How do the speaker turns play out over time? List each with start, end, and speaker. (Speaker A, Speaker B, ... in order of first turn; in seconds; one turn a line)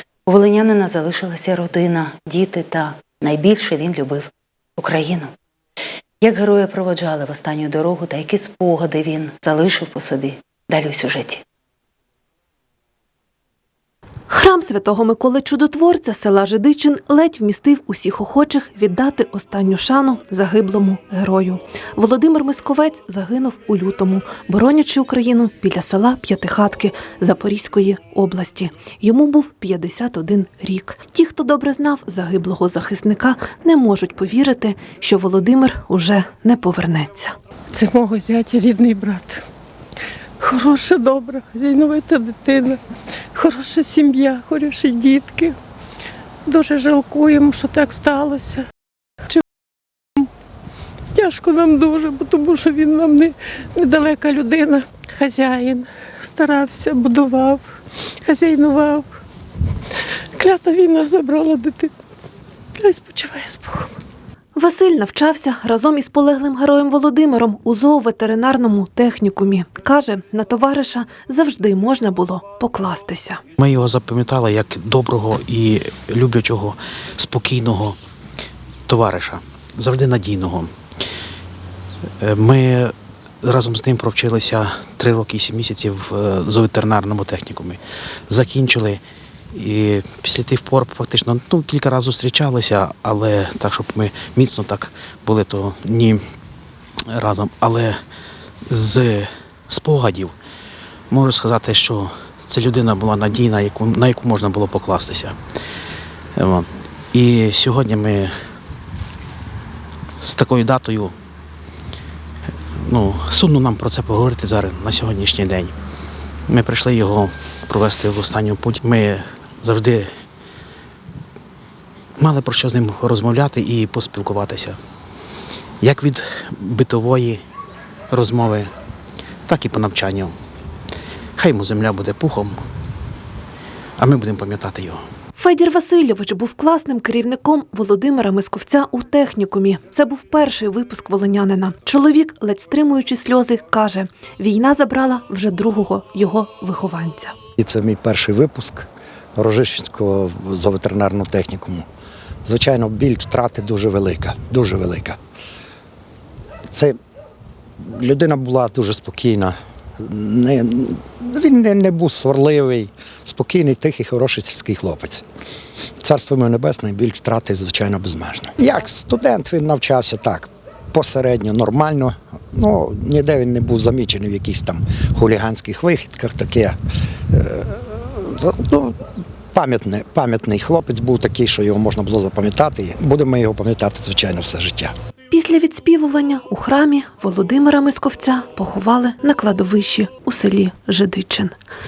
Speaker A: 0.3-5.3
Speaker A: 6.2-11.4
Speaker B: 14.3-37.3
Speaker C: 37.7-39.4
Speaker C: 40.4-42.8
Speaker C: 43.3-45.5
Speaker C: 46.5-48.6
Speaker C: 51.1-57.6
Speaker C: 58.2-59.0
Speaker C: 60.3-61.9
Speaker C: 62.8-64.0
Speaker B: 64.5-73.4
Speaker D: 73.6-78.0
Speaker D: 78.9-80.7
Speaker D: 82.2-89.0
Speaker D: 89.5-96.2
Speaker D: 97.1-98.0
Speaker D: 98.7-100.3
Speaker D: 101.1-105.3
Speaker D: 106.3-108.3
Speaker D: 110.2-111.1
Speaker D: 112.8-115.7
Speaker D: 116.5-120.1
Speaker D: 122.2-124.8
Speaker D: 125.8-127.4
Speaker D: 128.1-128.7
Speaker D: 129.5-130.3
Speaker D: 131.4-132.6
Speaker D: 134.0-135.0
Speaker B: 135.4-147.3
Speaker E: 147.6-151.8
Speaker E: 152.4-155.2
Speaker E: 156.7-156.9
Speaker E: 157.8-165.2
Speaker E: 166.0-176.8
Speaker E: 177.3-179.0
Speaker E: 179.5-184.9
Speaker B: 185.3-191.5